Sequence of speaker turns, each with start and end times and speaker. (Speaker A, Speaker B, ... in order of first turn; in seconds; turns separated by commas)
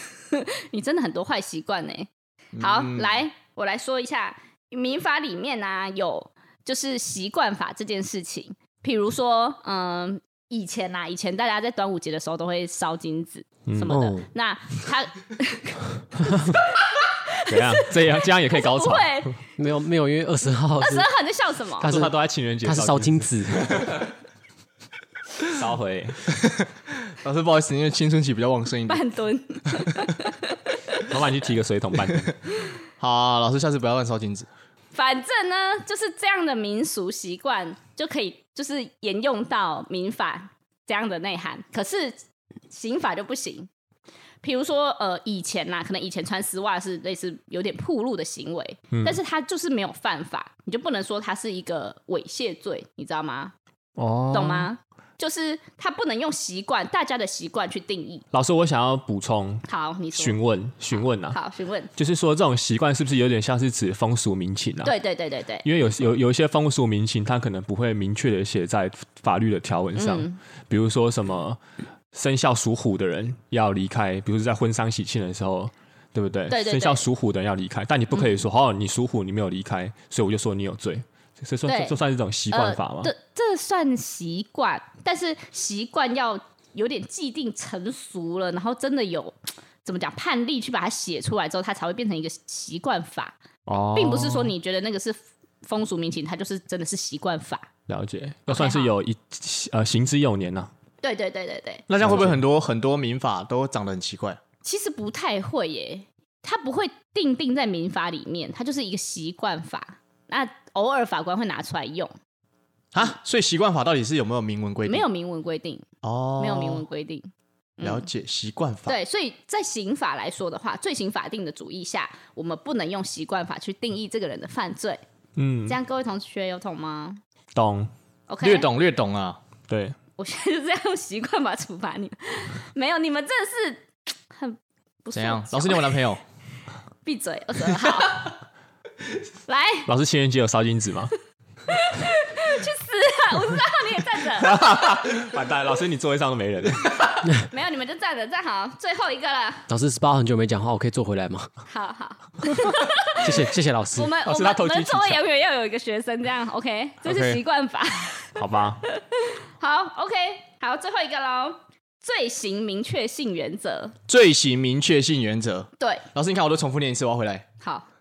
Speaker A: 0.3-19.4, Speaker B: 2.5-3.2, Speaker C: 13.7-13.9, Speaker D: 13.9-14.3, Speaker C: 17.5-19.3, Speaker D: 19.6-21.1, Speaker A: 20.8-21.9, Speaker C: 21.8-24.0, Speaker D: 21.8-23.8, Speaker C: 25.4-26.2, Speaker B: 27.2-29.0, Speaker A: 28.9-31.0, Speaker C: 31.0-32.3, Speaker B: 33.0-34.5, Speaker A: 34.9-42.2, Speaker A: 42.7-43.7, Speaker A: 44.4-53.5, Speaker C: 48.9-49.2, Speaker C: 54.0-54.7, Speaker A: 54.3-58.2, Speaker C: 58.3-61.4, Speaker A: 59.7-61.9, Speaker C: 62.0-64.9, Speaker A: 64.8-65.7, Speaker C: 65.6-71.6, Speaker A: 70.0-70.4, Speaker C: 72.1-83.1, Speaker A: 76.5-77.0, Speaker A: 81.7-82.0, Speaker A: 82.5-93.4, Speaker C: 93.7-94.5, Speaker A: 93.9-97.7, Speaker C: 97.9-100.7, Speaker A: 98.5-98.9, Speaker A: 101.0-101.9, Speaker B: 101.9-104.4, Speaker C: 101.9-102.4, Speaker A: 104.6-112.1, Speaker B: 112.9-115.0, Speaker A: 114.8-115.8, Speaker B: 116.0-116.8, Speaker A: 116.4-118.1, Speaker B: 117.8-119.0, Speaker A: 118.8-125.0, Speaker C: 125.3-125.8, Speaker A: 125.7-127.2, Speaker C: 127.5-127.9, Speaker A: 128.3-128.7, Speaker B: 128.4-129.4, Speaker C: 129.7-129.9, Speaker A: 130.2-136.0, Speaker B: 135.1-136.2, Speaker A: 137.0-138.3, Speaker A: 139.5-139.9, Speaker C: 139.8-141.1, Speaker A: 141.7-144.5, Speaker C: 144.3-147.3, Speaker A: 147.3-149.7, Speaker D: 149.7-151.5, Speaker A: 151.7-153.3, Speaker D: 153.2-154.1, Speaker A: 153.9-163.9, Speaker C: 154.2-155.2, Speaker B: 157.0-157.4, Speaker C: 158.3-158.8, Speaker B: 164.1-167.4, Speaker A: 165.8-166.0, Speaker A: 167.6-167.8